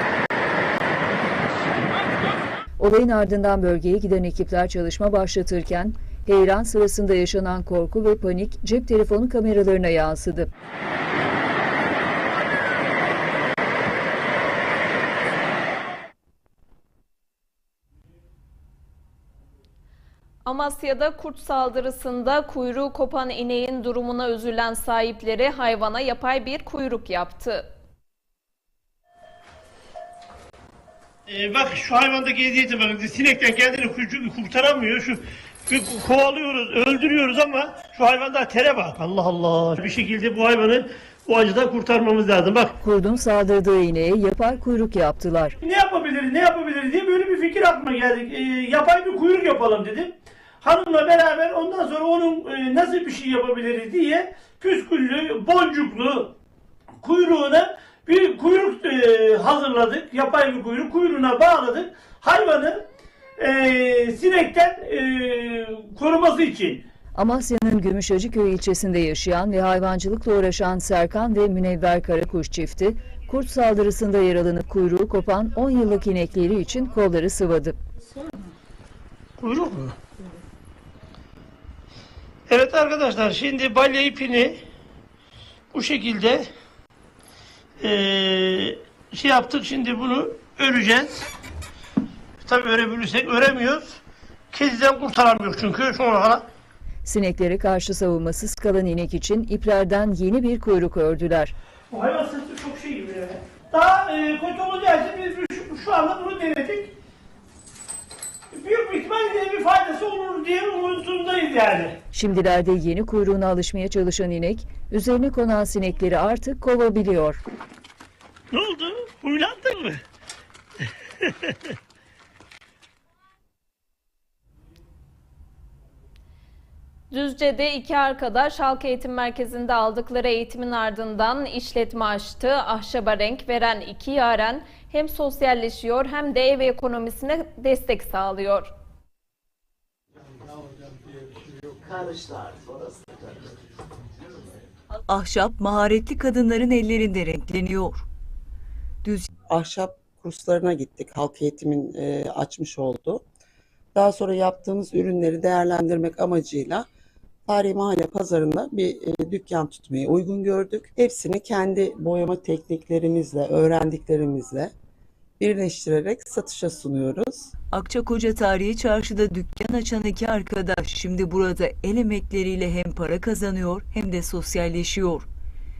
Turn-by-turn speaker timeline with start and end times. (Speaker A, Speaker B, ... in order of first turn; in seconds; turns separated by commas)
Speaker A: 2.8-10.5, Speaker B: 20.4-27.7, Speaker C: 31.3-42.7, Speaker A: 42.8-45.6, Speaker C: 45.6-56.3, Speaker C: 57.0-62.8, Speaker C: 63.4-66.8, Speaker A: 67.2-77.8, Speaker C: 79.4-80.0, Speaker C: 82.5-84.6, Speaker C: 85.7-86.5, Speaker C: 87.8-91.2, Speaker C: 92.4-94.0, Speaker C: 94.5-96.5, Speaker A: 97.0-101.5, Speaker C: 101.9-106.9, Speaker C: 108.5-112.0, Speaker A: 112.1-117.4, Speaker C: 118.5-120.0, Speaker B: 127.1-138.7, Speaker D: 145.1-148.0, Speaker D: 149.0-149.3, Speaker E: 149.5-153.2, Speaker E: 153.9-156.8, Speaker E: 157.5-164.7, Speaker E: 165.4-167.5, Speaker D: 167.7-175.2